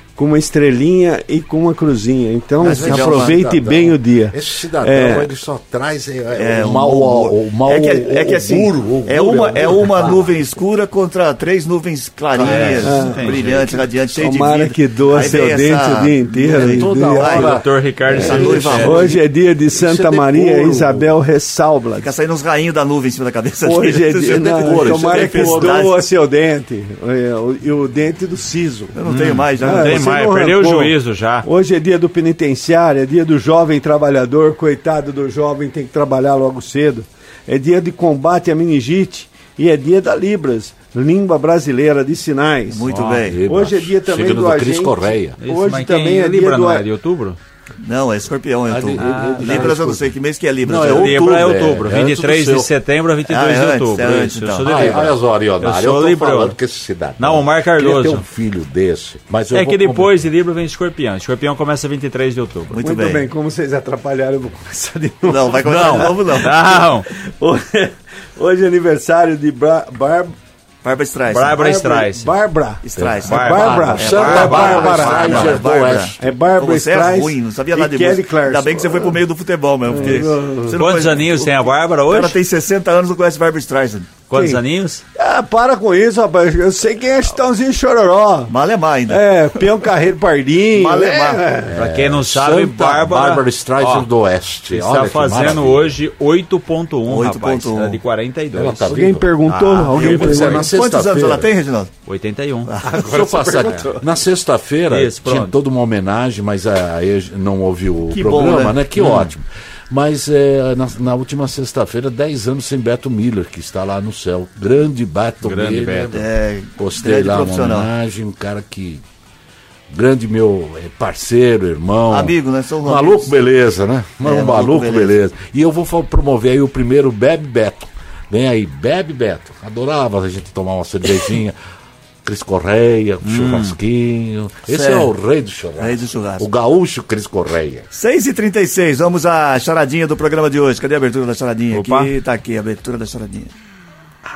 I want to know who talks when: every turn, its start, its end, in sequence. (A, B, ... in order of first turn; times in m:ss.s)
0:00.2-0:05.3 A
0:02.6-0:03.4 B
0:02.6-0:10.3 C
0:06.3-0:17.6 B
0:12.4-0:13.4 D
0:12.4-0:13.8 C
0:12.8-0:13.3 A
0:14.1-0:17.6 A
0:16.6-0:19.2 C
0:17.4-0:19.1 D
0:18.1-0:22.0 A
0:18.2-0:19.2 B
0:19.7-0:21.1 C
0:22.0-0:26.0 B
0:23.6-0:29.0 A
0:24.4-0:25.8 C
0:28.9-0:30.1 B
0:29.0-0:31.4 D
0:29.6-0:42.9 A
0:42.7-0:43.4 B
0:42.9-0:43.2 D
0:43.2-0:45.4 C
0:43.4-0:46.8 A
0:45.4-0:47.4 D
0:47.8-0:51.3 B
0:48.7-0:50.1 C
0:49.0-0:49.7 D
0:50.6-0:52.7 C
0:50.8-0:56.6 D
0:53.2-0:55.1 B
0:54.6-1:00.2 C
0:57.2-0:58.2 D
0:59.5-1:02.8 D
1:02.7-1:03.3 B
1:02.8-1:06.5 A
1:05.2-1:06.9 B
1:05.6-1:06.2 C
1:06.3-1:07.1 D
1:07.1-1:10.3 A
1:10.8-1:11.8 B
1:11.3-1:12.3 D
1:11.6-1:15.5 A
1:12.8-1:21.5 B
1:13.0-1:16.3 C
1:13.2-1:15.5 D
1:16.2-1:19.2 A
1:19.9-1:20.8 A
1:20.8-1:22.4 D
1:22.1-1:24.2 B
1:24.3-1:25.0 D
1:24.3-1:24.6 A
1:25.2-1:28.5 A
1:28.5-1:29.6 B
1:29.1-1:31.8 A
1:30.7-1:31.4 B
1:31.6-1:36.0 C
1:31.7-1:34.1 D
1:34.7-1:38.9 D
1:37.1-1:38.0 B
1:38.5-1:39.3 C
1:38.9-1:40.7 A
1:39.5-1:40.7 D
1:39.9-1:41.9 B
1:40.0-1:41.5 C
1:42.0-1:42.7 D
1:42.6-1:43.0 B
1:42.8-1:44.0 A
1:42.9-1:56.2 C
1:44.9-1:45.5 D
1:48.1-1:48.8 B
1:49.0-1:49.3 D
1:55.4-1:56.1 D
1:56.1-1:57.9 B
1:56.8-1:59.0 C
1:59.9-2:11.6 C
2:02.1-2:03.3 B
2:04.2-2:05.1 B
2:12.2-2:17.9 C
2:13.2-2:13.8 D
2:14.7-2:15.1 B
2:15.8-2:16.4 B
2:17.9-2:23.5 B
2:21.7-2:22.1 D